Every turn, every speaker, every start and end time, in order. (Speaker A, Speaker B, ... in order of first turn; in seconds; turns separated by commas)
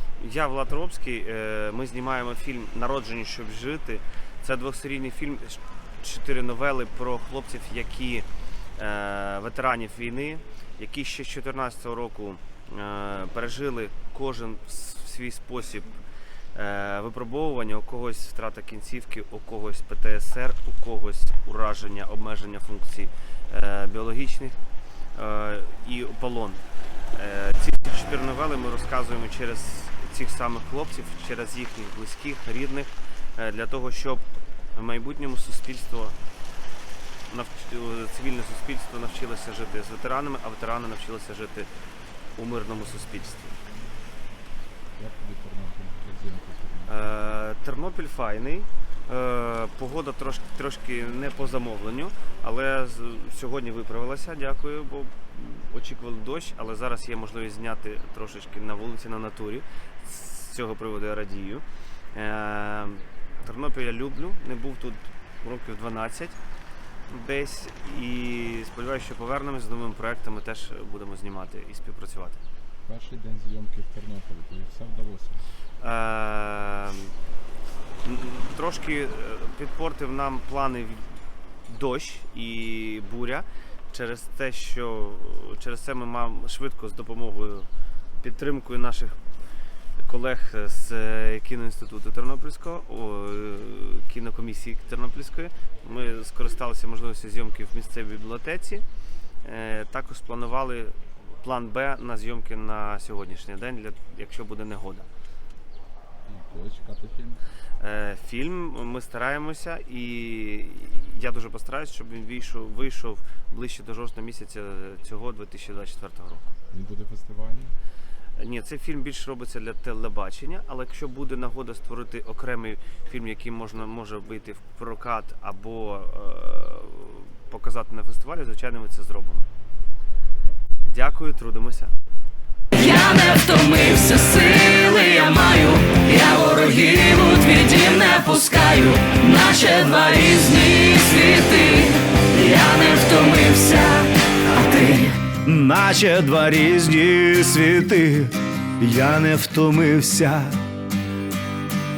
Speaker A: 0.2-16.0, Speaker A: 16.5-24.6, Speaker A: 25.1-26.6, Speaker A: 27.1-36.2, Speaker A: 37.3-41.7, Speaker A: 42.4-43.5, Speaker B: 45.0-47.0, Speaker A: 46.9-66.4, Speaker A: 67.1-72.4, Speaker B: 72.8-75.5, Speaker A: 75.8-77.1, Speaker A: 78.0-81.1, Speaker A: 81.7-87.7, Speaker A: 88.2-89.2, Speaker A: 90.0-98.8, Speaker A: 99.4-105.1, Speaker B: 106.2-107.4, Speaker A: 107.8-116.5, Speaker B: 116.7-117.8, Speaker A: 118.4-129.5, Speaker A: 130.9-131.9, Speaker C: 132.7-145.3, Speaker D: 145.4-150.6